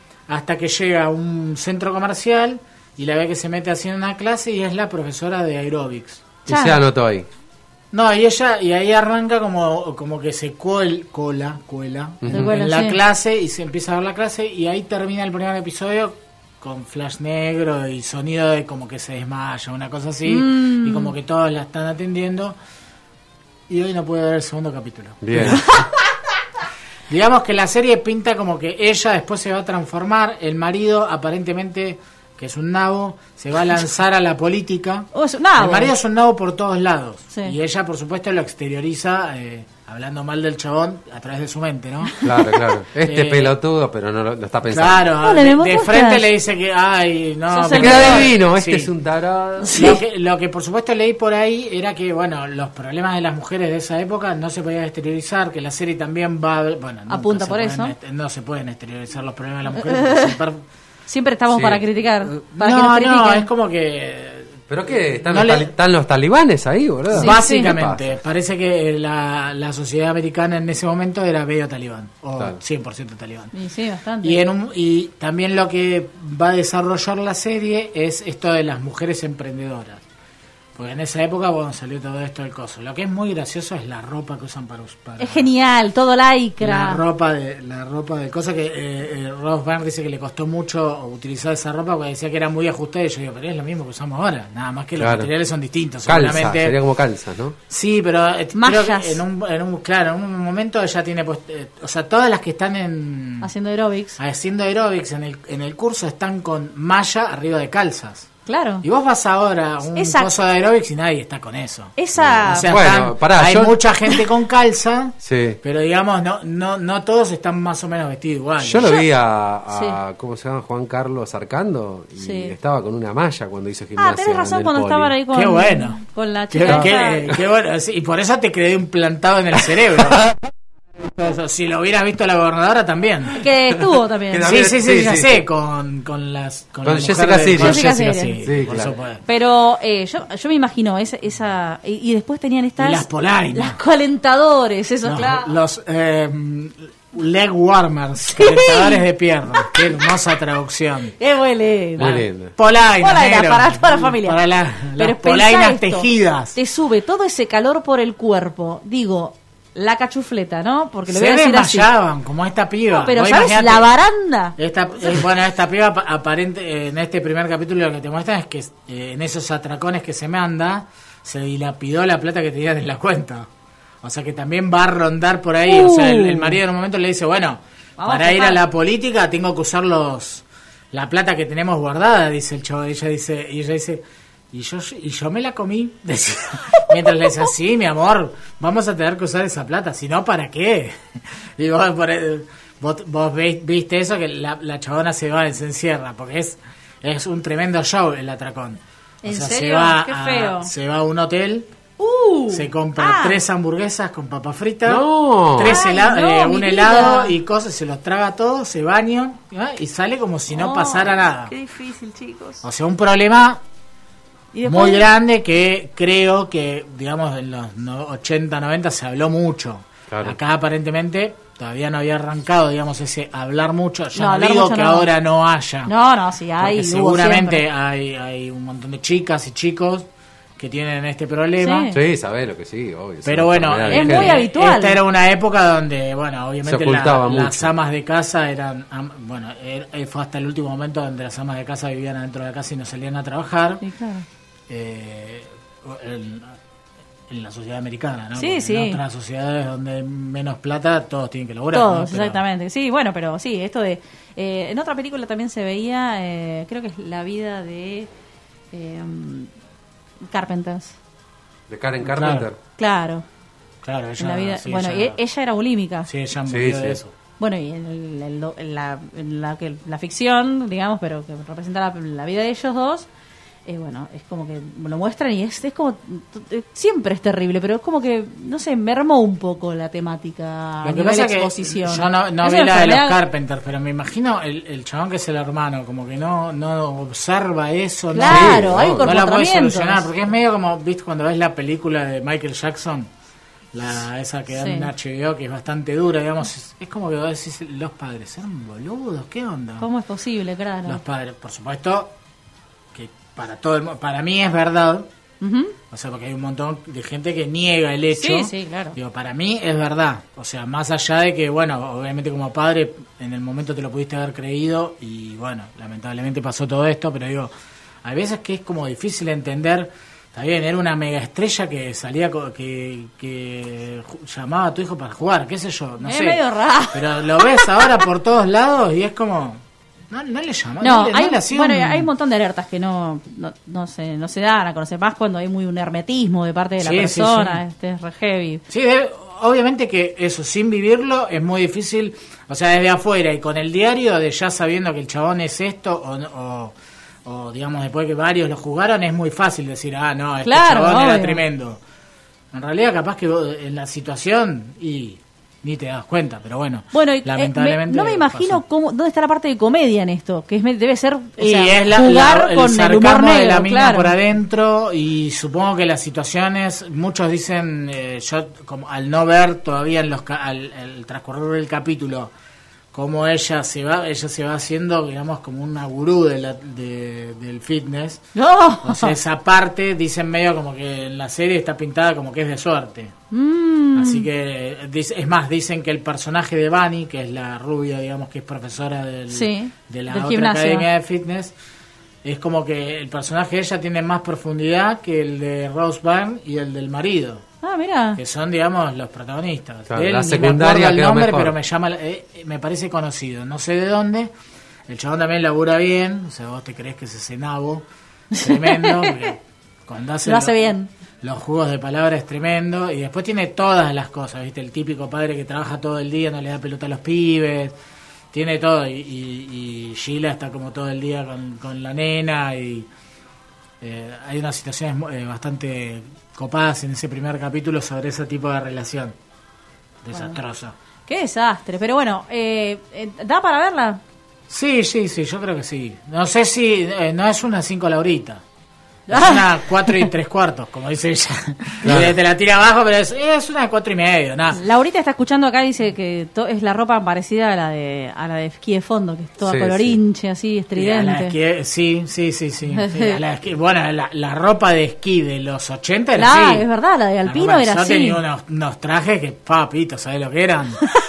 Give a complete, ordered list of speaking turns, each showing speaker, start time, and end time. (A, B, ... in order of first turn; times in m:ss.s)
0:00.3-0:06.3 A
0:06.4-0:06.8 B
0:06.5-0:07.3 C
0:07.9-0:22.6 A
0:12.2-0:12.6 C
0:12.3-0:13.0 B
0:20.2-0:21.1 B
0:23.7-0:25.6 A
0:25.2-0:25.8 C
0:25.4-0:25.9 B
0:27.1-0:42.2 A
0:35.1-0:35.9 B
0:42.1-0:42.6 B
0:42.2-0:45.1 C
0:43.0-0:43.5 A
0:44.7-0:48.9 A
0:45.2-0:46.3 B
0:47.5-0:48.3 B
0:47.7-0:49.7 C
0:49.6-0:50.0 B
0:49.7-1:00.6 A
0:57.1-0:57.9 B
0:59.7-1:00.4 B
1:01.1-1:03.5 B
1:01.5-1:01.8 C
1:02.4-1:04.6 A
1:04.7-1:08.2 C
1:05.2-1:05.7 A
1:07.1-1:13.5 A
1:07.1-1:07.8 B
1:13.5-1:14.4 B
1:14.2-1:20.0 A
1:20.8-1:25.5 A
1:25.2-1:27.0 B
1:26.6-1:36.8 A
1:35.0-1:35.3 C
1:36.0-1:37.6 C
1:37.7-1:43.5 A
1:38.5-1:39.2 B
1:43.4-1:44.2 B
1:44.2-1:48.3 A
1:48.4-1:48.8 B
1:48.8-1:51.9 A
1:49.9-1:50.3 B
1:52.0-1:52.8 B
1:52.1-1:53.8 C
1:52.4-1:58.9 A
1:55.2-1:55.6 C
1:58.6-2:05.1 C
1:59.7-2:00.0 B
2:02.2-2:02.6 B
2:04.0-2:07.3 B
2:05.3-2:10.3 A
2:06.6-2:07.3 C
2:11.1-2:13.4 A
2:13.3-2:14.7 B
2:14.3-2:15.4 C
2:14.4-2:19.2 A
2:16.8-2:17.9 C
2:17.6-2:18.4 B
2:18.4-2:19.0 C
2:19.2-2:25.5 B
2:22.8-2:23.8 A
2:25.0-2:31.1 A
2:28.4-2:29.0 B
2:31.2-2:32.2 B
2:32.0-2:32.5 C
2:32.0-2:36.6 A
2:32.8-2:34.4 B
2:35.0-2:41.9 B
2:41.1-2:43.9 A
2:42.9-2:45.2 B
2:44.6-2:53.5 A
2:54.0-3:21.7 A
2:55.6-2:56.6 B
2:58.0-2:58.6 B
3:19.2-3:20.7 B
3:22.0-3:23.4 B
3:22.5-3:31.5 A
3:24.8-3:25.8 C
3:25.6-3:27.4 B
3:30.5-3:32.6 B
3:32.6-3:33.6 A
3:34.5-3:35.0 B
3:34.6-3:45.9 A
3:40.1-3:40.4 C
3:44.1-3:45.1 B
3:45.8-3:47.6 B
3:46.6-3:50.1 A
3:50.6-3:51.9 A
3:51.6-3:52.0 B
3:51.9-3:54.4 C
3:53.2-4:03.8 A
3:53.9-3:55.0 B
3:56.6-3:57.7 C
4:03.8-4:04.2 B
4:04.7-4:06.6 A
4:07.3-4:12.4 A
4:08.4-4:09.0 B
4:11.7-4:18.1 B
4:18.7-4:19.5 B
4:20.3-4:21.0 B
4:21.7-4:22.6 C
4:22.0-4:22.5 A
4:22.8-4:23.2 B
4:23.8-4:25.2 A
4:24.2-4:26.1 B
4:26.1-4:27.1 A
4:26.5-4:27.0 C
4:27.4-4:33.1 B
4:33.6-4:43.2 B
4:40.8-4:53.1 A
4:48.1-4:50.1 B
4:48.2-4:49.1 C
4:53.7-4:59.9 A
4:54.5-4:54.9 B
4:59.8-5:01.0 B
5:00.8-5:02.1 A
5:02.9-5:05.1 A
5:05.4-5:05.7 B
5:05.9-5:17.5 A
5:08.1-5:09.0 B
5:18.0-5:26.4 A
5:26.0-5:28.0 B
5:26.9-5:32.1 A
5:30.8-5:38.6 B
5:36.8-5:37.6 A
5:38.7-5:51.8 A
5:50.4-5:51.4 B
5:52.5-5:58.6 A
5:56.9-6:04.2 B
6:01.4-6:12.3 A
6:12.9-6:18.2 A
6:18.3-6:19.1 B
6:18.8-6:23.1 A
6:23.3-6:24.3 B
6:23.9-6:31.5 A
6:29.3-6:30.8 B
6:32.2-6:37.4 A
6:37.6-6:38.2 B
6:38.2-6:44.3 A
6:39.9-6:41.6 C
6:44.9-6:47.8 A
6:48.3-6:49.2 B
6:48.4-6:57.7 A
6:50.2-6:50.9 B
6:58.3-7:02.9 A
7:03.8-7:09.1 A
7:10.0-7:10.7 A
7:10.1-7:10.4 B
7:11.1-7:14.0 B
7:14.5-7:18.4 A
7:19.1-7:20.1 B
7:19.1-7:24.6 A
7:21.8-7:22.1 C
7:24.5-7:31.3 B
7:29.4-7:30.0 C
7:30.7-7:36.6 A
7:32.7-7:33.2 B
7:36.2-7:38.2 B
7:37.2-7:40.9 A